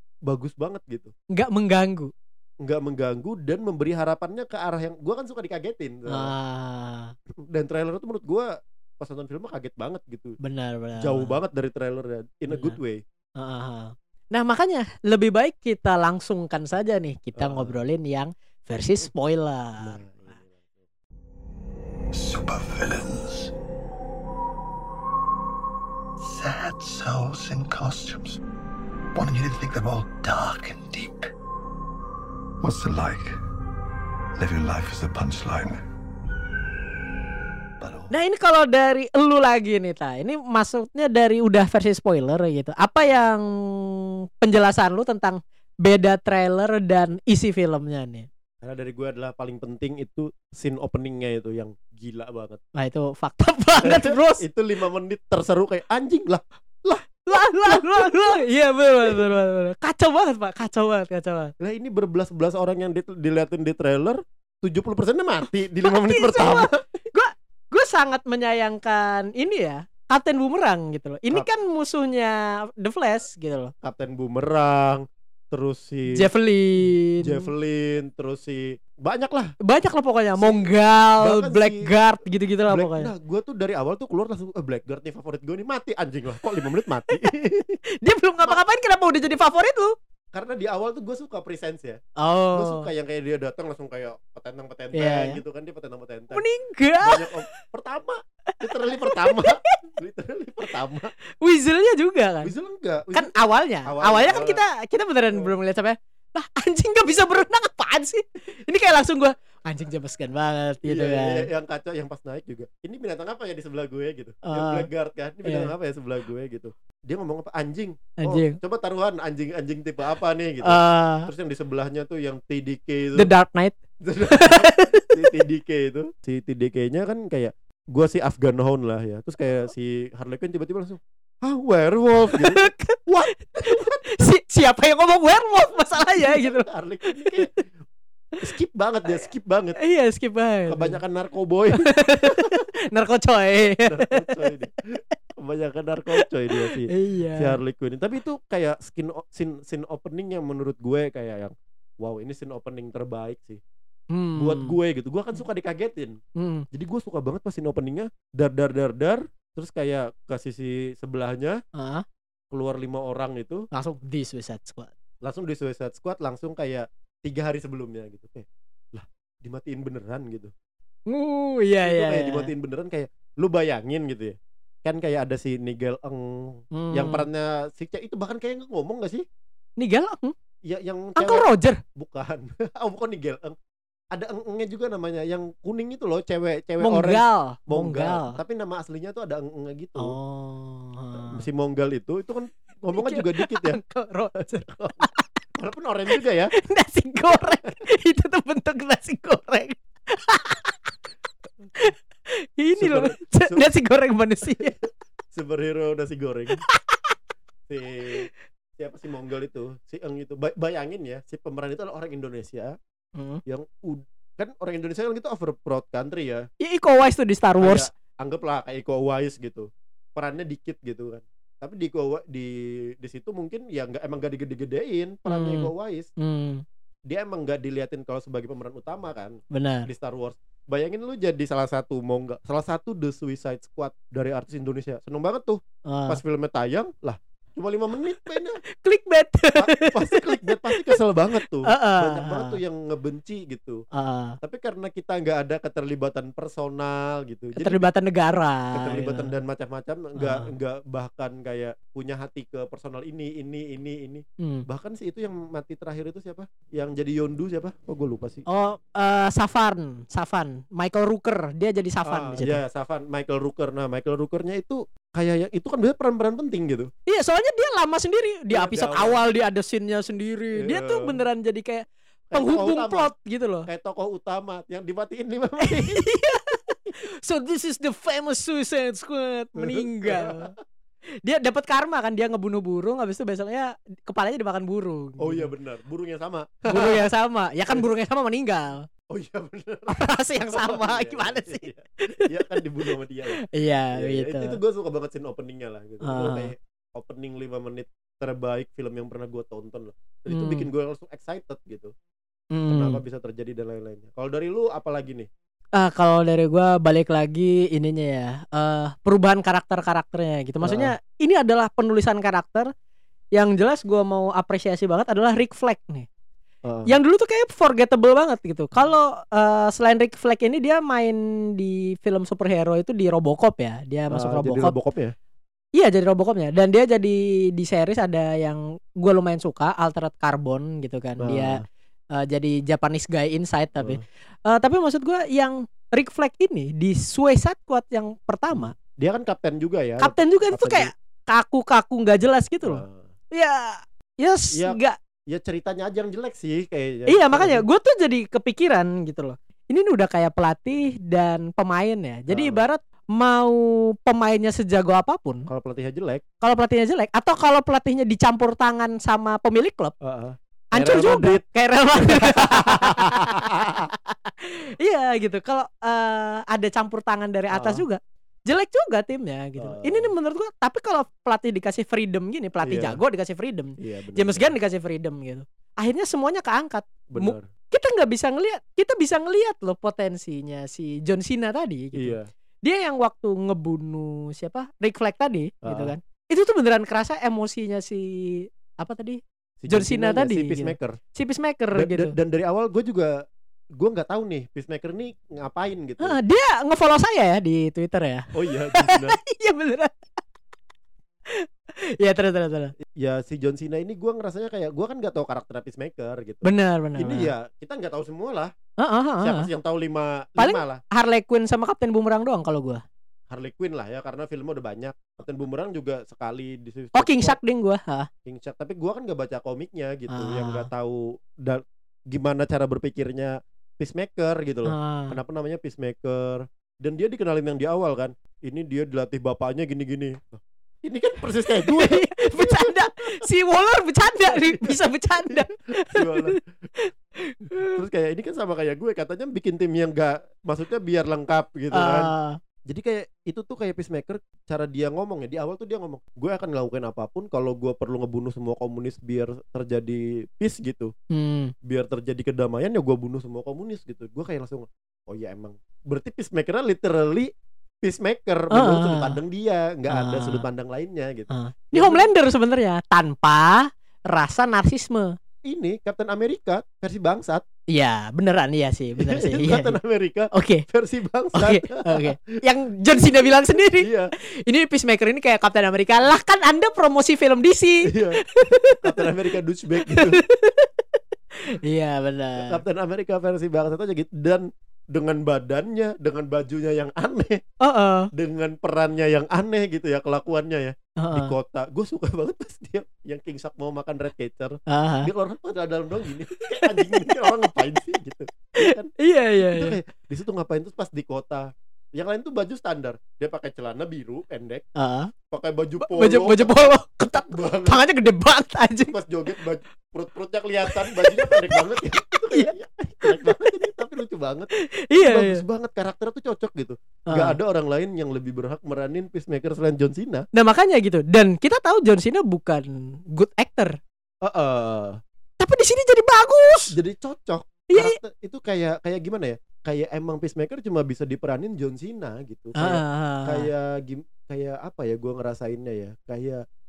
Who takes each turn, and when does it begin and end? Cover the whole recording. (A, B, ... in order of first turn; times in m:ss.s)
0:00.3-0:01.1 A
0:01.3-0:02.1 B
0:02.6-0:06.3 A
0:06.1-0:07.1 B
0:07.5-0:10.4 A
0:10.4-0:11.4 B
0:11.0-0:13.0 A
0:12.5-0:12.8 B
0:13.4-0:20.0 B
0:17.4-0:17.8 A
0:19.8-0:20.9 A
0:22.1-0:23.5 C
0:26.2-0:28.4 C
0:29.2-0:31.3 C
0:32.6-0:33.3 C
0:34.4-0:35.8 C
0:37.8-0:38.1 C
0:38.1-0:48.3 B
0:48.6-0:52.6 A
0:52.8-0:54.4 B
0:53.8-0:58.3 A
0:57.3-1:01.5 B
1:01.6-1:06.9 A
1:05.8-1:13.7 B
1:13.8-1:16.3 A
1:16.1-1:17.5 B
1:17.2-1:19.5 A
1:19.6-1:23.1 B
1:20.4-1:21.9 A
1:22.7-1:27.8 A
1:28.0-1:29.9 B
1:30.3-1:32.0 A
1:32.2-1:32.9 B
1:32.5-1:36.4 A
1:34.9-1:35.4 B
1:36.3-1:37.5 B
1:37.0-1:41.1 A
1:38.6-1:39.8 B
1:41.4-1:42.5 B
1:42.4-1:43.3 A
1:43.1-1:51.5 B
1:43.8-1:44.6 A
1:50.8-2:03.3 A
1:54.4-1:54.9 B
1:55.4-1:55.7 B
1:58.2-1:58.6 B
2:00.6-2:01.3 B
2:03.2-2:03.8 B
2:04.0-2:14.3 A
2:04.3-2:05.3 B
2:12.3-2:17.4 B
2:15.9-2:17.6 A
2:18.4-2:19.8 A
2:19.1-2:21.0 B
2:20.7-2:22.5 A
2:21.9-2:24.6 B
2:23.9-2:24.8 A
2:25.4-2:33.6 A
2:26.2-2:27.6 B
2:34.1-2:34.8 B
2:34.4-2:36.2 A
2:36.4-2:36.7 B
2:36.7-2:41.6 A
2:41.8-2:42.0 B
2:42.5-2:43.6 A
2:43.7-2:44.9 B
2:45.2-2:50.5 A
2:51.1-2:52.5 B
2:51.8-2:59.2 A
2:56.7-2:57.3 B
2:59.8-3:00.3 B
3:00.6-3:03.6 A
3:01.2-3:01.8 B
3:04.1-3:10.2 A
3:06.8-3:08.4 B
3:10.0-3:11.4 B
3:11.2-3:13.8 A
3:12.9-3:15.3 B
3:14.6-3:15.1 A
3:15.6-3:16.5 A
3:16.6-3:20.7 B
3:22.6-3:24.8 B
3:22.8-3:23.7 A
3:24.5-3:24.7 A
3:25.3-3:26.6 A
3:26.7-3:27.0 B
3:27.7-3:32.8 A
3:33.2-3:33.4 B
3:33.5-3:36.4 A
3:36.6-3:37.9 B
3:37.6-3:46.1 A
3:45.2-3:46.6 B
3:47.1-3:58.6 A
3:49.5-3:49.9 B
3:55.9-3:56.2 B
3:58.8-4:01.0 B
3:59.6-4:03.8 A
4:01.6-4:02.6 B
4:03.9-4:04.4 B
4:04.4-4:07.9 A
4:07.6-4:09.3 B
4:08.7-4:18.4 A
4:10.2-4:10.5 B
4:14.4-4:14.7 B
4:18.5-4:22.6 B
4:22.1-4:26.9 A
4:27.1-4:33.7 B
4:28.5-4:29.2 A
4:30.6-4:31.2 A
4:32.3-4:33.1 A
4:33.7-4:36.1 A
4:35.6-4:40.5 B
4:39.6-4:40.6 A
4:41.2-4:45.5 B
4:45.2-4:47.1 A
4:46.7-4:48.8 B
4:49.1-4:53.4 A
4:49.9-4:52.6 B
4:53.4-4:54.6 B
4:54.0-5:01.9 A
4:56.0-4:56.5 B
5:00.3-5:00.7 B
5:02.5-5:03.0 B
5:02.7-5:05.3 A
5:05.8-5:12.7 B
5:10.6-5:10.9 A
5:13.4-5:16.1 B
5:16.6-5:16.9 A
5:16.9-5:24.7 B
5:24.1-5:25.1 A
5:25.8-5:31.6 B
5:31.2-5:31.6 A
5:32.1-5:38.7 B
5:38.5-5:40.9 A
5:40.0-5:45.0 B
5:42.6-5:43.1 A
5:44.5-5:44.8 A
5:45.3-5:47.6 A
5:47.1-5:55.5 B
5:52.3-5:52.6 A
5:55.5-5:56.2 A
5:56.4-5:59.9 B
6:00.0-6:01.4 A
6:00.7-6:03.3 B
6:02.0-6:03.9 A
6:04.1-6:32.2 B
6:07.5-6:07.8 A
6:09.6-6:10.1 A
6:12.6-6:13.0 A
6:13.8-6:14.5 A
6:17.1-6:17.5 A
6:22.0-6:22.3 A
6:25.6-6:25.9 A
6:29.6-6:31.0 A
6:31.8-6:33.1 A
6:33.8-6:36.2 A
6:36.0-6:39.9 B
6:38.3-6:39.2 A
6:42.0-6:42.7 B
6:43.0-6:48.5 A
6:46.4-6:47.3 B
6:48.8-6:49.5 B
6:49.2-6:50.8 A
6:50.4-6:52.8 B
6:53.3-6:57.4 A
6:57.0-6:58.1 B
6:58.3-7:13.2 A
7:00.1-7:00.7 B
7:04.7-7:05.2 B
7:11.5-7:17.7 B
7:14.1-7:16.4 A
7:17.6-7:22.1 A
7:21.7-7:22.4 B
7:22.7-7:30.9 A
7:31.1-7:31.5 B
7:31.6-7:37.3 A
7:37.8-7:42.1 A
7:38.5-7:39.2 B
7:39.9-7:40.4 B
7:41.3-7:45.1 B
7:45.4-7:47.4 A
7:47.7-7:49.8 B
7:49.0-7:52.4 A
7:50.3-7:50.6 B
7:51.4-7:53.9 B
7:52.9-7:54.1 A
7:54.5-7:59.1 B
7:57.8-7:58.2 A
7:58.8-8:00.2 A
7:59.9-8:00.7 B
8:01.5-8:02.6 B
8:02.4-8:07.4 A
8:07.6-8:08.1 B
8:08.1-8:18.9 A
8:11.0-8:11.3 B
8:14.7-8:15.1 B
8:16.6-8:17.2 B
8:18.6-8:19.8 B
8:19.4-8:24.7 A
8:24.8-8:25.1 B
8:25.3-8:27.8 A
8:25.8-8:28.9 B
8:28.9-8:40.2 A
8:30.7-8:31.7 B
8:33.0-8:33.5 B
8:34.6-8:35.4 B
8:37.1-8:37.4 B
8:40.3-8:43.8 B
8:44.2-8:45.0 A
8:45.4-8:46.7 B
8:46.7-8:56.4 A
8:47.7-8:48.0 B
8:52.6-8:53.5 B